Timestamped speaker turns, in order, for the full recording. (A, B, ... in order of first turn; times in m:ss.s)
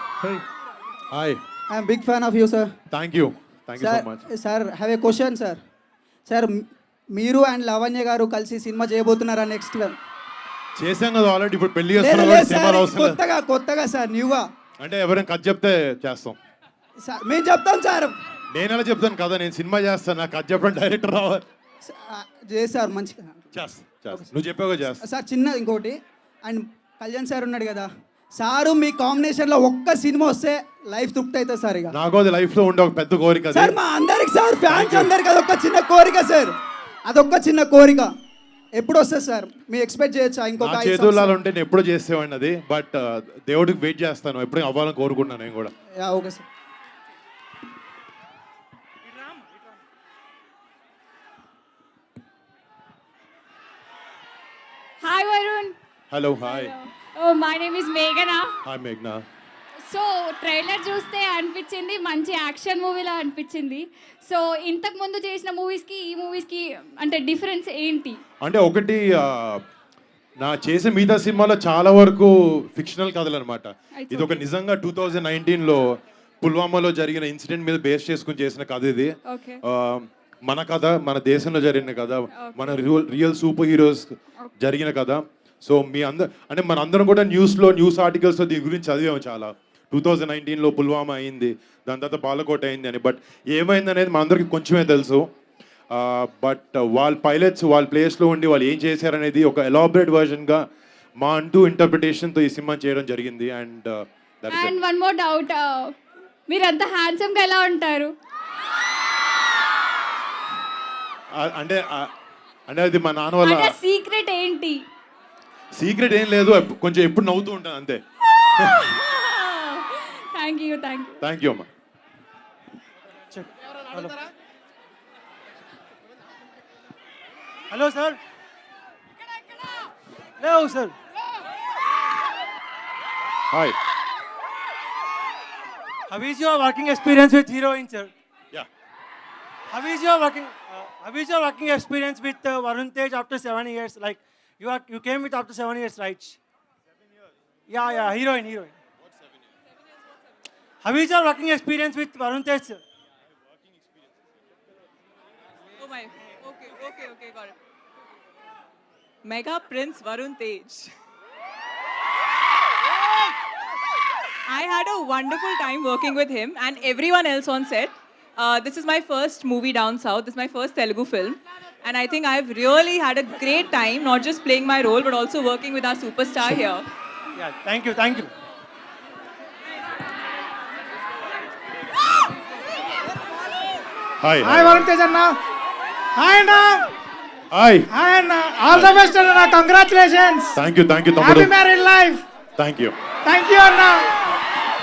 0:01.1-0:01.4 A
0:01.7-0:02.7 B
0:02.9-0:04.2 A
0:03.8-0:05.6 B
0:06.3-0:06.6 B
0:07.2-0:10.0 B
0:10.8-0:13.2 A
0:12.0-0:14.4 B
0:14.8-0:16.4 A
0:17.1-0:18.1 B
0:18.5-0:21.4 A
0:21.8-0:23.5 B
0:23.5-0:25.0 A
0:25.1-0:31.9 B
0:31.9-0:33.8 A
0:33.5-0:36.5 B
0:34.7-0:35.1 A
0:37.1-0:38.1 B
0:38.8-0:41.4 B
0:40.6-0:45.7 A
0:46.0-0:46.4 B
0:55.0-0:55.8 C
0:56.1-0:56.8 A
0:56.4-0:58.5 C
0:58.6-0:59.2 A
0:59.9-1:08.2 C
1:08.4-1:09.6 A
1:10.4-1:15.9 A
1:14.0-1:14.4 C
1:16.4-1:19.1 A
1:19.3-1:19.6 C
1:19.6-1:35.3 A
1:22.4-1:22.8 C
1:35.9-1:40.6 A
1:41.2-1:44.7 A
1:44.5-1:46.0 C
1:46.5-1:48.1 C
1:51.4-1:52.1 A
1:52.7-1:53.8 A
1:53.4-1:54.8 C
1:55.8-1:58.0 A
1:58.8-2:01.2 C
2:01.2-2:01.7 A
2:03.3-2:04.1 D
2:07.7-2:08.2 D
2:10.4-2:11.0 D
2:13.5-2:13.8 A
2:16.1-2:18.1 D
2:19.7-2:26.4 D
2:27.7-2:28.8 D
2:30.8-2:32.8 D
2:35.8-2:37.6 E
2:39.2-2:40.9 E
2:44.5-2:56.9 E
2:57.4-2:58.3 D
3:04.2-3:04.9 A
3:04.4-3:05.4 F
3:06.2-3:06.9 F
3:07.5-3:07.9 A
3:07.9-3:10.5 F
3:08.7-3:09.0 A
3:10.6-3:11.6 A
3:11.2-3:12.2 F
3:12.6-3:13.0 A
3:13.3-3:14.1 F